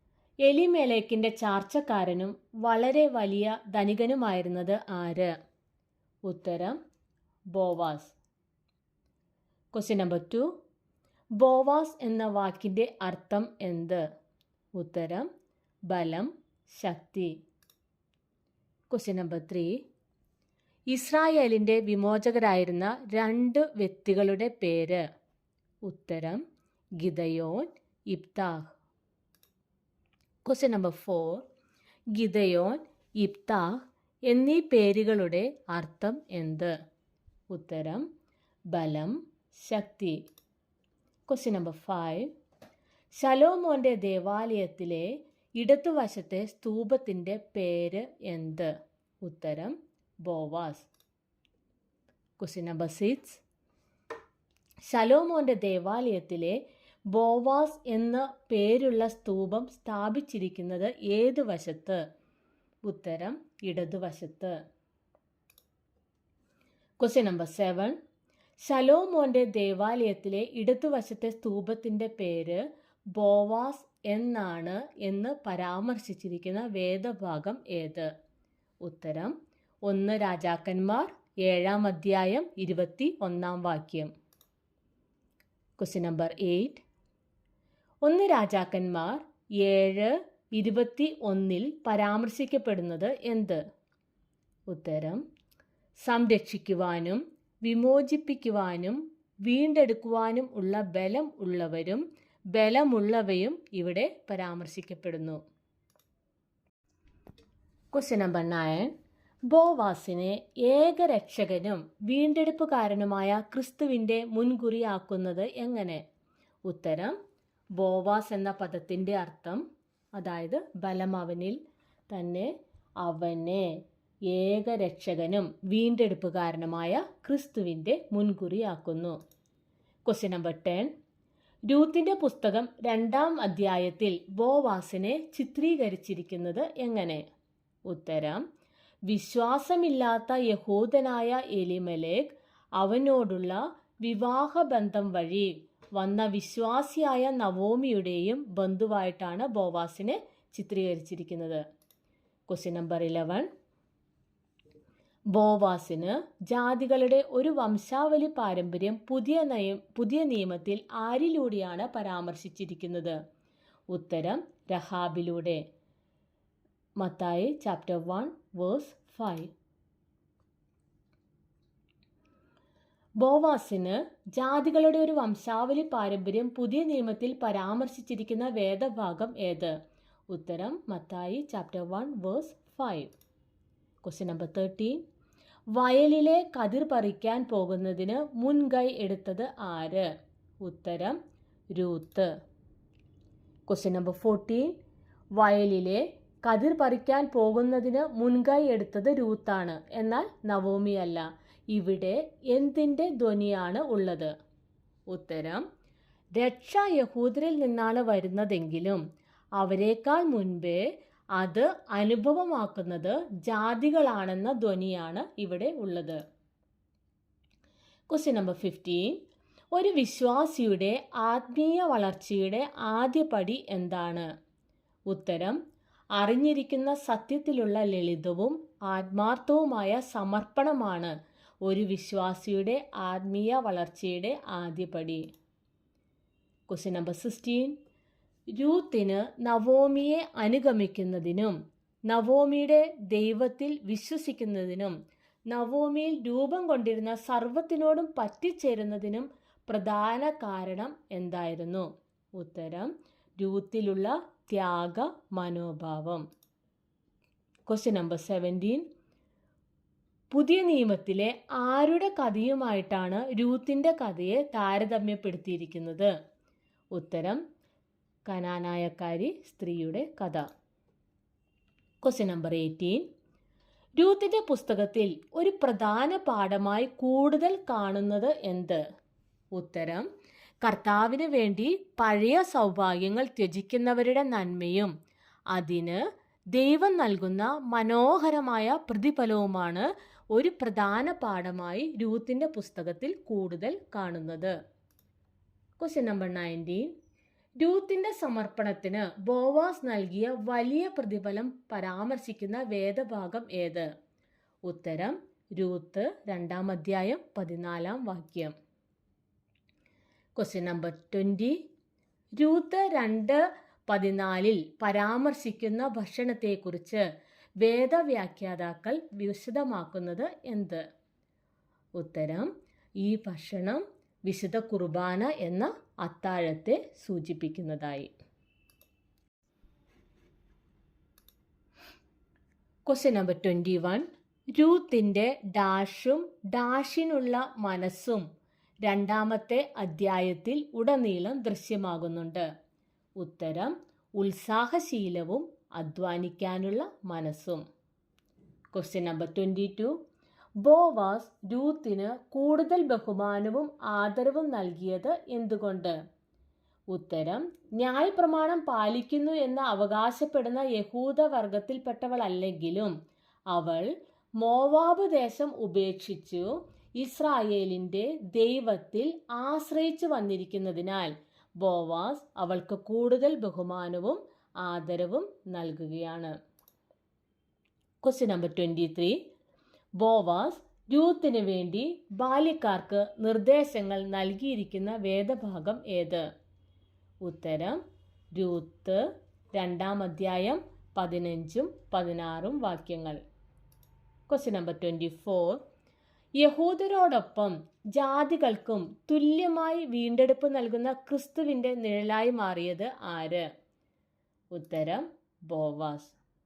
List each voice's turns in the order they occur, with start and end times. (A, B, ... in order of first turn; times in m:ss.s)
0:00.4-0:05.3 A
0:06.3-0:06.8 A
0:07.5-0:08.1 A
0:09.7-0:10.5 A
0:11.4-0:14.0 A
0:14.8-0:15.3 A
0:15.9-0:17.3 A
0:18.9-0:19.8 A
0:20.9-0:25.0 A
0:25.8-0:26.4 A
0:27.0-0:28.7 A
0:30.4-0:31.4 A
0:32.1-0:33.8 A
0:34.3-0:36.7 A
0:37.5-0:38.0 A
0:38.7-0:40.2 A
0:41.3-0:42.3 A
0:43.2-0:48.7 A
0:49.2-0:50.9 A
0:52.4-0:53.4 A
0:54.9-0:56.6 A
0:57.1-1:02.0 A
1:02.8-1:04.5 A
1:07.0-1:07.9 A
1:08.6-1:12.6 A
1:13.1-1:18.1 A
1:18.8-1:19.3 A
1:19.8-1:24.1 A
1:25.8-1:26.8 A
1:28.0-1:33.6 A
1:34.7-1:35.2 A
1:36.0-1:42.0 A
1:42.5-1:45.4 A
1:47.9-1:48.9 A
1:49.5-1:56.0 A
1:56.6-1:57.1 A
1:57.8-1:59.6 A
2:00.2-2:02.5 A
2:03.0-2:03.7 A
2:04.3-2:09.2 A
2:10.1-2:10.9 A
2:11.7-2:17.2 A
2:17.9-2:18.4 A
2:19.1-2:31.6 A
2:32.5-2:33.5 A
2:35.3-2:43.2 A
2:43.9-2:45.6 A
2:47.0-2:49.5 A
2:53.2-2:59.7 A
3:00.3-3:03.1 A
3:04.0-3:05.0 A
3:05.7-3:10.1 A
3:10.6-3:11.2 A
3:11.7-3:12.3 A
3:13.7-3:14.7 A
3:15.4-3:24.3 A
3:25.1-3:25.6 A
3:26.4-3:29.0 A
3:29.6-3:30.8 A
3:31.4-3:36.2 A
3:38.1-3:39.2 A
3:39.7-3:44.2 A
3:45.1-3:45.6 A
3:46.2-3:51.1 A
3:51.6-3:55.2 A
3:56.7-3:57.7 A
3:58.5-4:01.5 A
4:02.1-4:04.9 A
4:05.5-4:16.2 A
4:17.7-4:18.8 A
4:20.3-4:26.1 A
4:26.9-4:27.4 A
4:28.2-4:30.4 A
4:32.0-4:33.0 A
4:34.0-4:38.8 A
4:39.5-4:40.1 A
4:40.6-4:44.9 A
4:45.5-4:46.0 A
4:46.5-4:54.5 A
4:55.8-4:56.9 A
4:57.6-5:03.9 A
5:04.6-5:08.5 A
5:10.4-5:11.6 A
5:12.4-5:17.0 A
5:17.6-5:20.8 A
5:22.0-5:22.5 A
5:23.0-5:28.1 A
5:32.9-5:38.2 A
5:38.8-5:42.4 A
5:43.2-5:47.6 A
5:48.7-5:49.9 A
5:50.6-5:55.9 A
5:56.9-6:02.9 A
6:03.5-6:06.5 A
6:07.0-6:16.3 A
6:18.0-6:19.2 A
6:20.0-6:26.2 A
6:27.2-6:27.8 A
6:28.3-6:33.2 A
6:34.3-6:35.6 A
6:36.4-6:43.4 A
6:44.5-6:46.2 A